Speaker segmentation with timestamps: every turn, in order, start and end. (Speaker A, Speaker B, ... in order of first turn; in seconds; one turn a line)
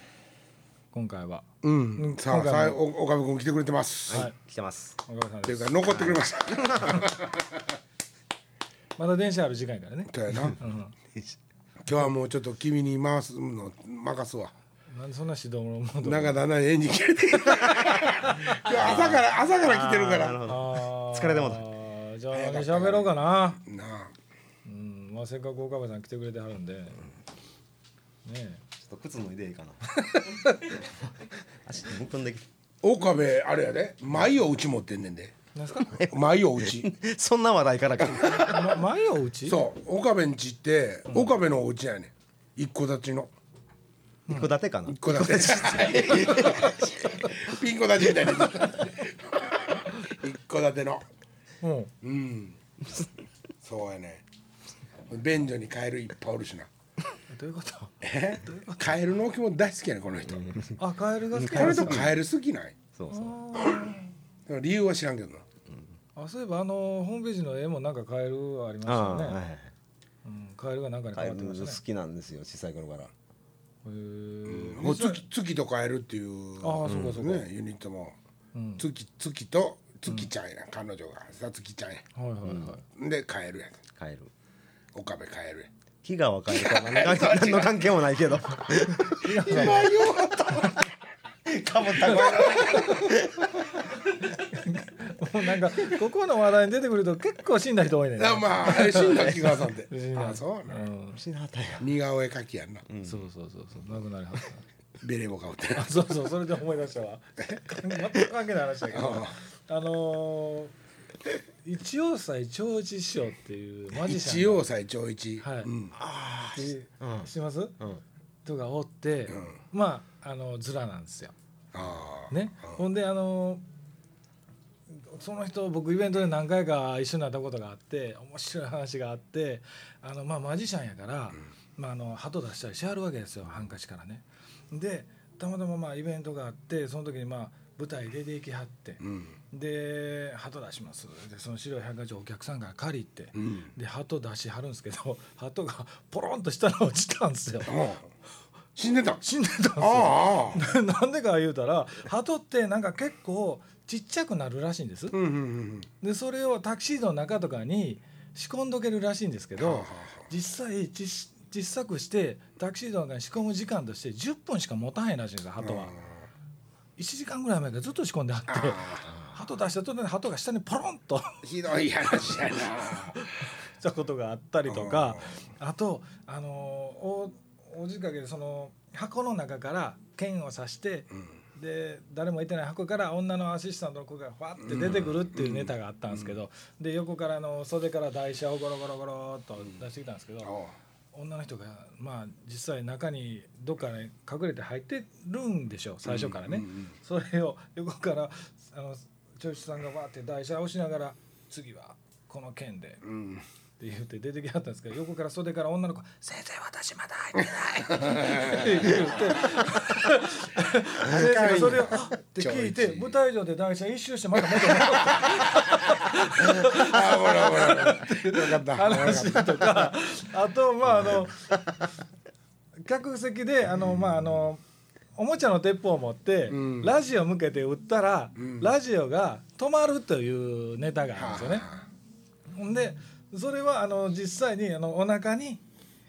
Speaker A: 0.9-2.8
Speaker B: 1.6-4.3
Speaker C: 4.1-5.0
Speaker A: 5.0-6.0
Speaker B: 5.5-7.7
Speaker C: 5.9-7.1
Speaker A: 9.0-10.9
Speaker B: 10.1-10.6
Speaker B: 11.8-14.5
Speaker A: 14.9-16.4
Speaker B: 16.0-20.4
Speaker C: 17.6-18.0
Speaker A: 18.2-18.8
Speaker C: 18.7-21.7
Speaker A: 20.4-23.6
Speaker B: 22.3-24.1
Speaker A: 24.6-27.0
Speaker A: 28.2-28.6
Speaker C: 28.8-29.8
Speaker A: 30.0-30.7
Speaker C: 30.7-32.4
Speaker B: 32.8-35.3
Speaker A: 35.5-36.0
Speaker C: 35.8-38.8
Speaker B: 36.0-36.9
Speaker B: 38.0-38.7
Speaker A: 38.4-39.6
Speaker B: 39.5-43.3
Speaker A: 44.3-44.5
Speaker C: 44.3-47.0
Speaker B: 44.9-51.0
Speaker A: 51.6-51.9
Speaker B: 52.0-52.6
Speaker B: 53.6-54.2
Speaker B: 55.1-56.7
Speaker A: 57.3-58.9
Speaker B: 58.0-60.5
Speaker C: 60.3-60.8
Speaker A: 60.8-62.1
Speaker C: 61.3-62.2
Speaker B: 61.5-62.8
Speaker C: 63.0-63.4
Speaker A: 63.1-64.1
Speaker B: 63.6-63.9
Speaker B: 64.5-65.5
Speaker A: 66.2-69.4
Speaker C: 68.8-69.7
Speaker A: 70.2-71.8
Speaker C: 71.1-73.1
Speaker A: 73.8-75.2
Speaker B: 74.5-78.2
Speaker A: 76.6-77.4
Speaker C: 76.8-77.3
Speaker A: 78.5-78.8
Speaker B: 78.8-82.0
Speaker A: 82.1-82.8
Speaker C: 82.4-82.7
Speaker B: 82.9-83.8
Speaker C: 84.0-84.3
Speaker B: 84.9-85.7
Speaker C: 86.0-90.9
Speaker B: 86.5-87.8
Speaker A: 89.1-89.9
Speaker B: 89.2-90.9
Speaker C: 91.5-93.8
Speaker A: 92.0-93.2
Speaker A: 94.1-101.2
Speaker B: 98.2-100.9
Speaker C: 98.8-99.6
Speaker C: 101.2-101.9
Speaker B: 101.8-102.8
Speaker C: 102.9-103.2
Speaker A: 103.0-104.6
Speaker B: 105.0-106.2
Speaker A: 105.7-110.7
Speaker B: 108.9-109.3
Speaker A: 111.6-114.6
Speaker B: 113.9-116.0
Speaker A: 115.4-115.7
Speaker C: 116.0-118.0
Speaker A: 116.5-117.7
Speaker A: 118.4-121.3
Speaker B: 119.3-119.6
Speaker B: 121.7-122.8
Speaker A: 122.3-123.6
Speaker A: 124.9-147.8
Speaker B: 139.0-139.3
Speaker B: 143.3-143.7
Speaker B: 147.7-148.0
Speaker B: 148.8-149.2
Speaker A: 149.2-155.2
Speaker B: 149.8-150.6
Speaker B: 155.1-155.9
Speaker A: 156.0-165.9
Speaker B: 159.6-160.2
Speaker B: 165.6-166.3
Speaker A: 167.0-171.4
Speaker B: 168.5-169.1
Speaker B: 171.4-173.2
Speaker A: 173.1-190.5
Speaker B: 174.7-175.2
Speaker B: 184.6-186.3
Speaker B: 190.4-190.7
Speaker A: 191.1-203.0
Speaker B: 196.0-196.9
Speaker B: 203.0-203.4
Speaker A: 203.8-221.8
Speaker B: 207.6-209.7
Speaker B: 211.0-213.1
Speaker B: 214.5-219.9
Speaker A: 222.8-224.6
Speaker A: 225.2-231.7
Speaker B: 226.5-226.9
Speaker B: 228.4-228.7
Speaker B: 231.1-231.8
Speaker A: 232.5-235.6